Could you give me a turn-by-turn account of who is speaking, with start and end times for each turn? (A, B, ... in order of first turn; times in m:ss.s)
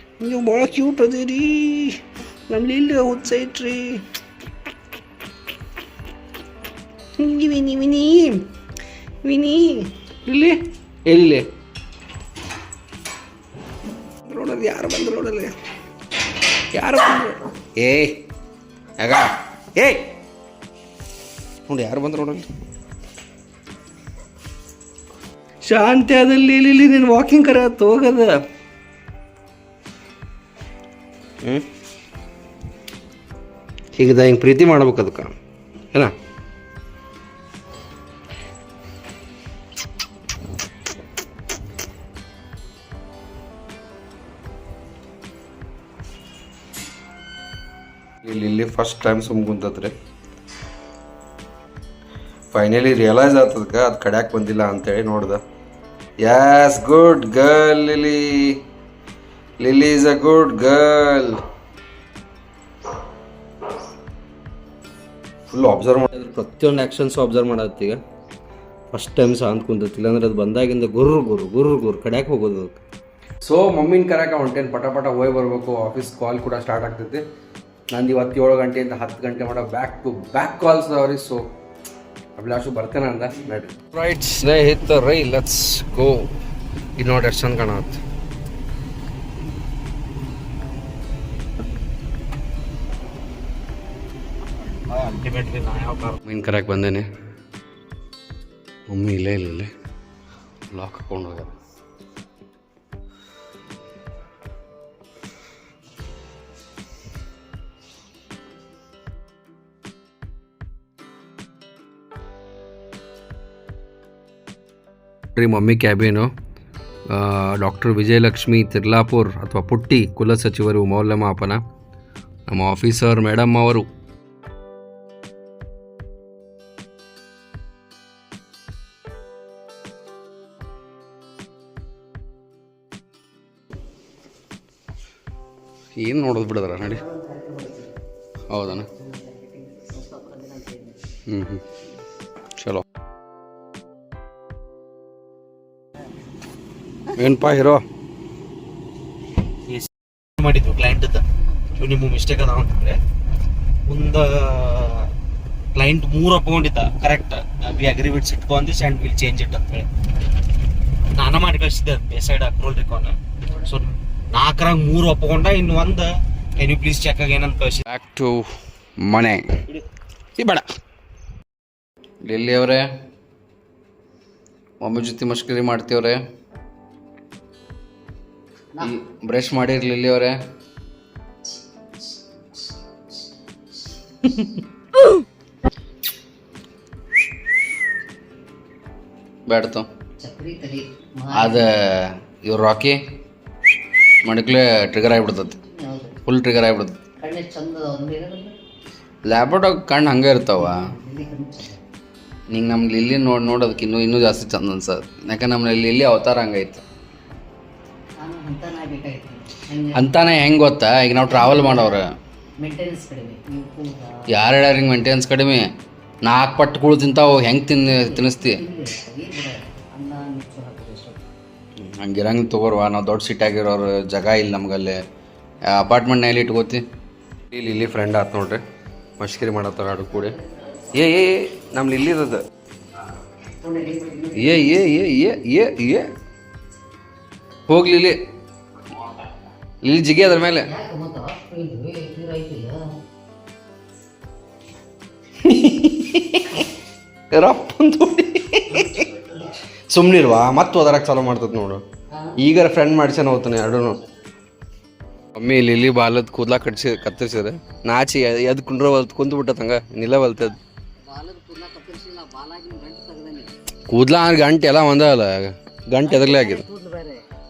0:00.2-0:04.0 A
0:07.2-0:08.5 A
0:09.2-0:11.4 A
0:14.3-0:15.5 A
0:16.7-0:18.2 A
0:19.0-0:20.1 A
0:21.6-0:22.4 A
0:25.6-0:28.3 A
0:34.0-0:35.3 A
0:48.2-0:49.9 A
0:52.5-0:55.4 A
0:56.2-0:58.6 A
0:59.6-1:01.4 A
1:05.5-1:08.0 A
1:08.9-1:12.8 A
1:13.4-1:17.2 A
1:17.9-1:21.4 A
1:22.4-1:26.3 A
1:27.0-1:28.0 A
1:34.9-1:36.2 B
1:36.2-1:37.0 A
1:38.9-1:39.7 A
1:40.7-1:41.5 A
1:55.4-1:56.3 A
1:57.1-2:01.6 A
2:02.5-2:03.8 A
2:16.0-2:17.0 A
2:16.8-2:18.0 C
2:18.5-2:18.9 A
2:18.7-2:21.0 C
2:21.3-2:21.6 A
2:22.6-2:22.8 A
2:27.1-2:27.8 A
2:29.7-2:33.0 B
2:33.9-2:35.1 B
2:35.7-2:39.9 B
2:41.1-2:47.8 B
2:47.9-2:49.5 A
2:50.4-2:50.6 A
2:52.2-2:52.9 A
2:54.8-2:56.2 A
2:58.8-3:00.4 A
3:04.3-3:04.5 A
3:09.5-3:09.9 A
3:10.2-3:11.7 C
3:11.3-3:13.0 A
3:14.2-3:15.6 A
3:15.5-3:16.2 C
3:16.2-3:17.0 A
3:17.2-3:18.5 C
3:19.2-3:20.9 A
3:20.6-3:21.8 C
3:22.5-3:26.8 A
3:28.2-3:30.1 C
3:29.9-3:32.1 A
3:31.2-3:32.0 C
3:32.6-3:34.2 C
3:34.3-3:35.7 A
3:36.2-3:38.6 A
3:37.8-3:41.2 C
3:41.8-3:45.0 A
3:45.7-3:46.8 A
3:47.5-3:48.6 A
3:49.2-3:50.3 A
3:50.1-3:50.9 C
3:50.9-3:52.4 A
3:53.6-3:54.8 C
3:54.4-3:56.1 A
3:57.7-3:58.2 A
3:59.8-4:00.7 A
4:00.6-4:02.8 C
4:05.4-4:06.7 A
4:07.3-4:09.3 A
4:08.7-4:09.1 C
4:09.9-4:11.8 A
4:12.4-4:14.0 A
4:15.4-4:20.6 A
4:21.1-4:23.5 C
4:23.9-4:26.6 A
4:26.0-4:27.2 C